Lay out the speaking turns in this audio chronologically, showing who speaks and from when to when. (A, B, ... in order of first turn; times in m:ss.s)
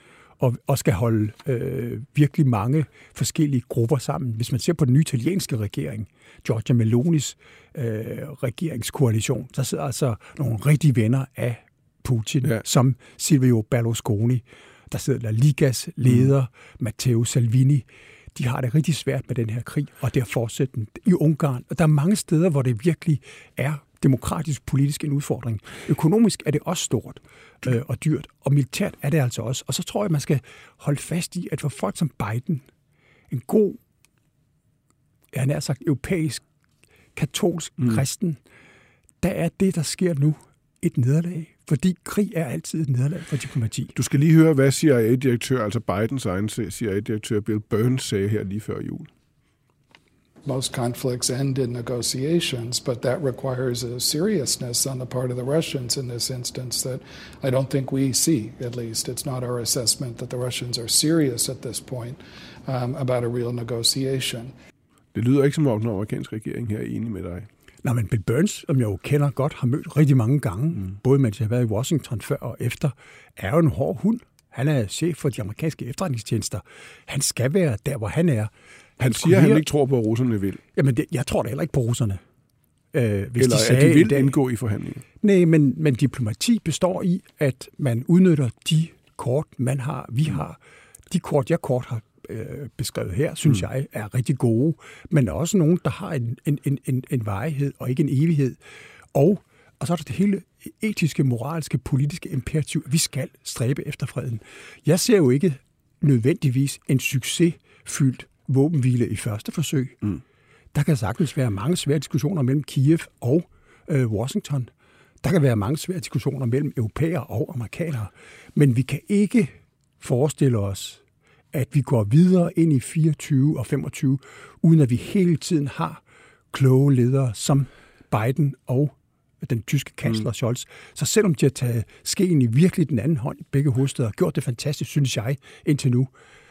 0:00.4-0:32.6 A
0:33.3-0:33.8 A
0:35.3-0:36.4 A
0:37.1-0:38.4 A
0:39.2-0:43.9 A
0:43.9-0:49.1 B
0:50.4-1:04.5 C
1:05.1-1:07.5 B
1:07.8-1:19.6 A
1:19.0-1:20.6 B
1:20.7-1:22.2 A
1:22.9-1:24.4 A
1:23.4-1:25.0 B
1:25.2-1:30.6 A
1:31.1-1:38.6 A
1:39.1-1:50.0 A
1:50.7-1:54.7 A
1:55.2-2:01.0 A
2:01.5-2:06.0 A
2:06.5-2:16.1 A